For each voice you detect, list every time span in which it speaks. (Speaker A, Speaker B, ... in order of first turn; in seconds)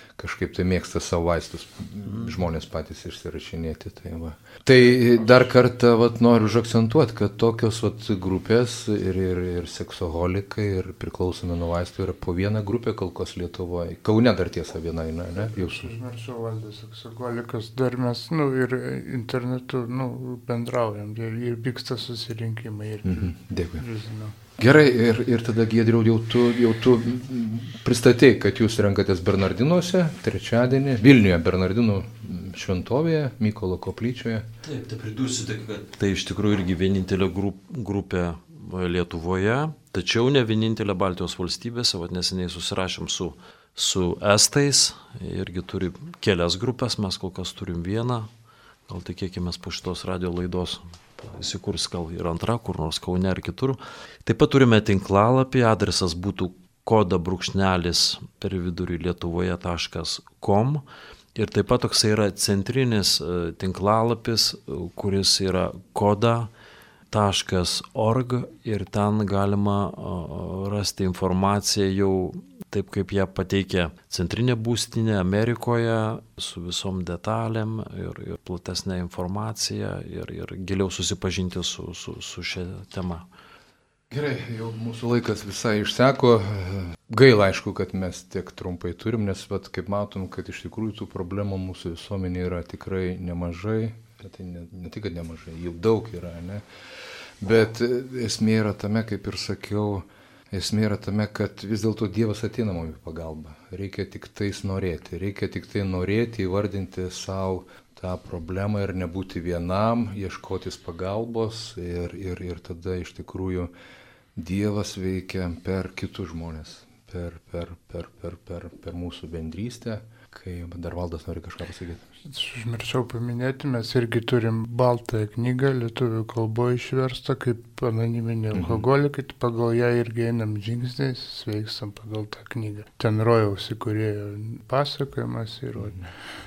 Speaker A: 0.2-15.9, 23.0-23.8, 24.6-34.5, 84.1-96.6, 97.4-113.7, 114.3-122.0, 128.5-128.8
Speaker B: 15.4-24.4, 122.2-136.1
Speaker C: 34.6-48.3, 48.9-60.8, 61.3-66.5, 67.1-83.2